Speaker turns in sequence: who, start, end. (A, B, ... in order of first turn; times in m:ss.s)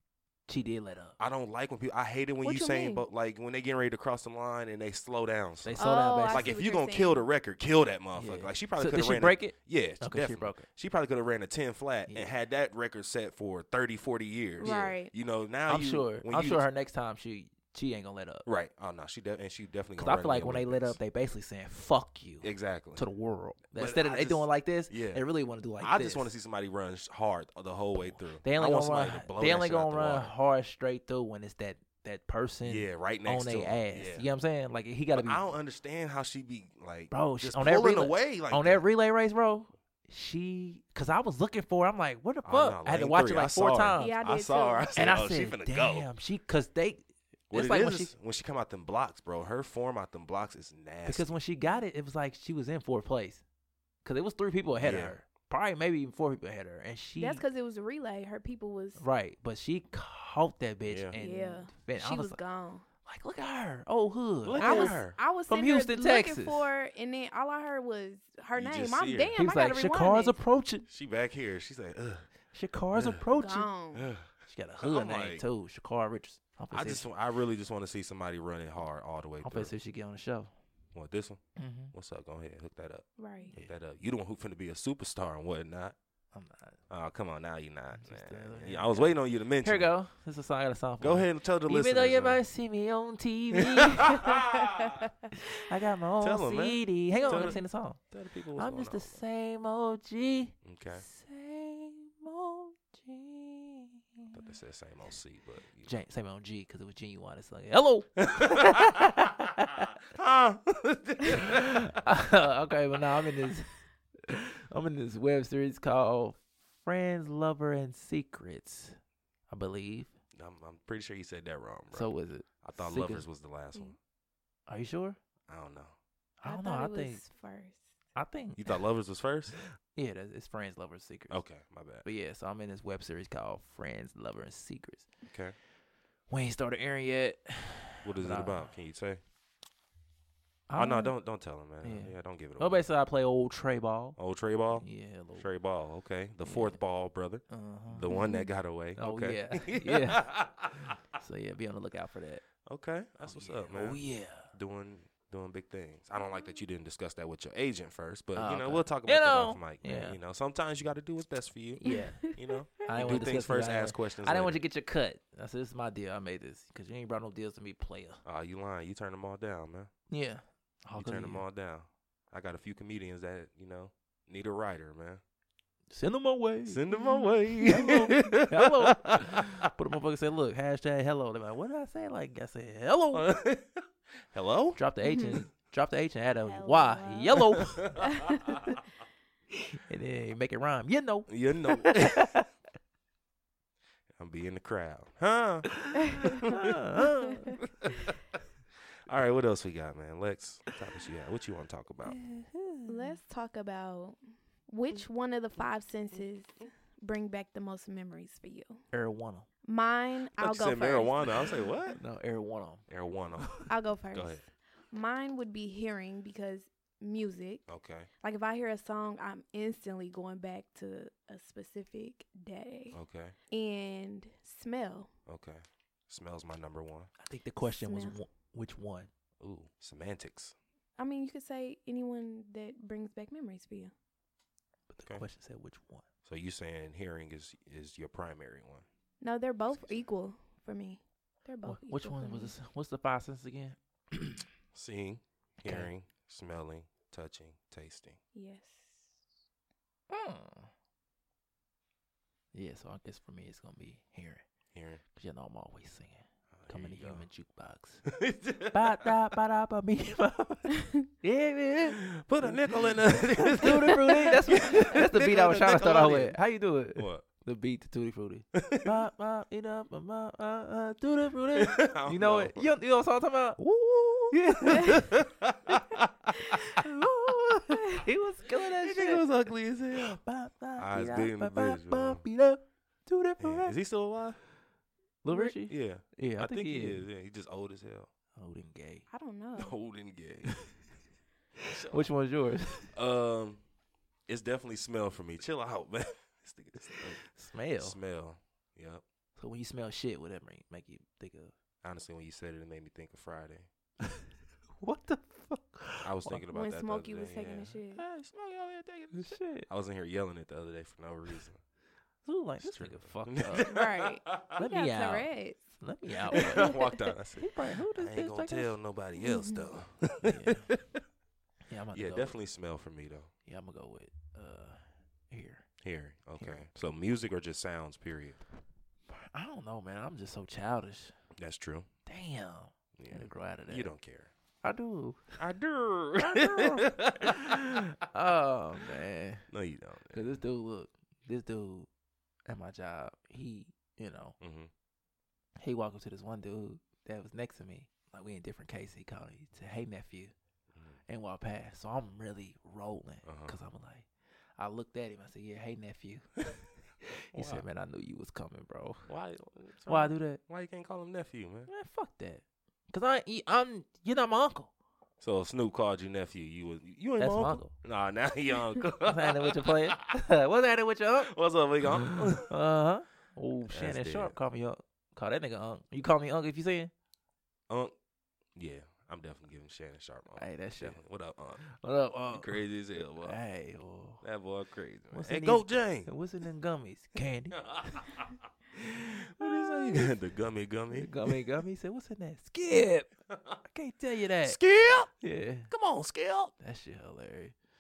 0:00.5-0:01.2 A
0:01.2-0:16.7 B
0:02.4-0:03.1 C
0:05.6-0:06.6 A
0:05.8-0:07.2 C
0:08.2-0:10.7 A
0:12.1-0:12.3 A
0:14.6-0:15.1 C
0:15.7-0:18.4 A
0:18.5-0:21.0 B
0:20.0-0:26.3 A
0:22.4-0:23.0 B
0:23.7-0:25.2 B
0:25.8-0:30.3 B
0:28.0-0:35.4 A
0:32.6-0:34.3 B
0:35.2-0:38.8 B
0:37.1-0:44.2 A
0:42.4-0:46.1 B
0:44.0-0:45.2 C
0:45.0-0:48.1 A
0:47.5-0:51.4 B
0:51.0-0:53.4 A
0:54.0-0:57.4 A
0:54.8-0:55.2 B
0:57.2-0:59.0 C
0:59.0-1:02.4 A
1:00.9-1:01.2 B
1:01.2-1:02.8 C
1:03.0-1:06.7 A
1:04.4-1:05.2 B
1:04.6-1:10.4 C
1:08.6-1:09.4 B
1:09.4-1:10.9 A
1:10.9-1:12.3 B
1:12.5-1:13.7 A
1:12.9-1:13.2 B
1:13.4-1:14.1 C
1:13.9-1:14.3 B
1:14.5-1:17.1 A
1:14.8-1:15.4 B
1:16.7-1:19.7 B
1:19.4-1:20.5 A
1:20.9-1:26.0 B
1:21.6-1:21.9 A
1:23.2-1:23.5 C
1:23.5-1:23.7 A
1:26.3-1:26.8 A
1:26.9-1:29.9 B
1:27.9-1:34.3 A
1:31.0-1:32.4 B
1:33.8-1:34.6 B
1:34.3-1:34.9 C
1:35.6-1:38.0 A
1:36.2-1:39.2 B
1:37.2-1:37.6 C
1:38.6-1:44.4 A
1:40.6-1:41.0 B
1:44.3-1:46.0 B
1:45.8-1:49.8 A
1:48.3-1:49.0 B
1:49.7-1:51.9 B
1:51.3-1:59.0 A
1:59.5-2:00.1 A
2:00.3-2:02.1 B
2:01.9-2:03.3 A
2:02.6-2:04.0 B
2:04.7-2:05.2 A
2:05.5-2:06.0 B
2:06.4-2:07.2 A
2:06.4-2:07.8 C
2:08.2-2:08.8 A
2:08.6-2:09.6 B
2:09.9-2:11.4 A
2:11.3-2:12.0 B
2:12.0-2:15.1 A
2:15.3-2:15.6 B
2:16.3-2:18.7 A
2:18.0-2:19.2 B
2:20.7-2:21.1 A
2:20.8-2:22.9 B
2:21.8-2:24.2 A
2:24.2-2:31.0 B
2:24.7-2:25.5 A
2:26.4-2:26.8 A
2:27.5-2:28.1 A
2:28.1-2:28.5 C
2:29.0-2:32.4 A
2:32.7-2:44.6 B
2:33.2-2:34.5 A
2:38.4-2:40.2 A
2:41.8-2:42.2 A
2:41.9-2:43.2 C
2:42.8-2:48.2 A
2:48.2-2:49.9 B
2:50.1-2:51.4 A
2:51.0-2:55.2 B
2:55.9-2:56.8 A
2:56.7-2:59.7 B
2:56.9-2:57.4 C
2:57.6-3:03.3 A
3:03.1-3:04.8 B
3:04.8-3:07.9 A
3:05.0-3:05.4 C
3:06.4-3:07.4 C
3:07.6-3:08.7 B
3:08.0-3:08.6 C
3:09.6-3:12.5 A
3:11.3-3:12.3 B
3:14.2-3:16.8 B
3:15.7-3:17.7 A
3:16.1-3:16.4 C
3:19.1-3:22.2 B
3:22.1-3:23.2 A
3:22.9-3:28.8 C
3:28.9-3:29.5 A
3:29.6-3:32.0 C
3:30.4-3:32.0 B
3:32.0-3:32.8 A
3:32.9-3:34.4 B
3:33.4-3:33.7 A
3:33.7-3:37.7 C
3:37.7-3:38.1 B
3:38.2-3:43.0 C
3:42.9-3:43.4 B
3:43.5-3:45.1 C
3:45.3-3:47.1 B
3:47.2-3:49.1 A
3:47.6-3:48.2 C
3:49.4-3:50.6 B
3:51.0-3:53.9 C
3:54.9-3:56.0 A
3:56.2-3:58.9 B
3:59.2-4:02.5 C
3:59.8-4:00.0 B
4:01.6-4:04.4 A
4:04.7-4:08.2 B
4:05.6-4:05.9 A
4:08.3-4:09.2 C
4:10.1-4:10.7 A
4:12.5-4:14.4 A
4:14.7-4:15.0 B
4:15.1-4:18.0 A
4:16.5-4:17.3 B
4:18.1-4:19.1 B
4:18.7-4:33.6 A
4:22.1-4:26.4 B
4:27.0-4:27.2 B
4:28.5-4:28.9 B
4:31.6-4:32.7 B
4:33.6-4:36.6 B
4:34.3-4:35.1 A
4:36.7-4:39.3 A
4:38.8-4:40.2 B
4:40.0-4:43.8 A
4:40.8-4:42.2 B
4:43.4-4:44.4 B
4:45.2-4:47.1 A
4:45.7-4:48.1 B
4:48.4-4:49.1 A
4:49.1-4:49.8 C
4:49.6-4:50.6 B
4:51.6-4:52.9 A
4:51.7-4:52.1 B
4:52.9-4:53.6 B
4:54.3-4:57.2 B
4:57.2-4:58.0 A
4:57.8-4:59.0 B
4:59.4-5:01.5 A
5:01.8-5:03.7 B
5:04.8-5:06.4 A
5:06.0-5:11.6 B
5:06.5-5:08.0 C
5:09.1-5:09.7 A
5:12.2-5:13.8 A
5:12.6-5:14.6 B
5:13.5-5:15.6 C
5:14.6-5:16.8 A
5:16.3-5:17.0 C
5:16.3-5:21.0 B
5:17.4-5:18.8 A
5:19.2-5:19.7 C
5:20.2-5:20.7 A
5:21.7-5:22.4 A
5:21.9-5:23.3 B
5:23.5-5:25.6 A
5:25.8-5:28.4 B
5:29.1-5:31.2 A
5:31.4-5:31.9 B
5:32.1-5:33.9 A
5:33.0-5:34.3 B
5:34.6-5:35.4 A
5:35.4-5:37.6 B
5:36.2-5:39.5 A
5:39.5-5:40.4 B
5:40.1-5:41.9 A
5:42.5-5:44.4 A
5:44.4-5:44.7 B
5:45.6-5:50.3 A
5:50.7-5:51.0 B
5:51.1-5:59.1 A
5:53.2-5:53.5 B
5:57.3-5:57.6 B
5:59.1-6:01.7 B
5:59.9-6:00.4 A
6:01.7-6:04.7 A
6:05.2-6:10.0 B
6:07.2-6:07.7 A
6:09.0-6:11.3 A
6:11.2-6:12.5 B
6:12.0-6:16.9 A
6:13.7-6:14.4 B
6:18.6-6:21.7 B
6:20.4-6:21.0 A
6:21.6-6:22.6 A
6:22.3-6:23.4 B
6:23.2-6:24.2 A
6:24.2-6:26.1 B
6:25.1-6:28.1 A
6:27.7-6:28.2 B
6:28.8-6:30.1 A
6:29.3-6:31.5 B
6:30.9-6:33.1 A
6:33.6-6:34.6 A
6:34.4-6:35.1 B
6:35.2-6:35.7 A
6:35.7-6:36.5 B
6:36.6-6:37.5 A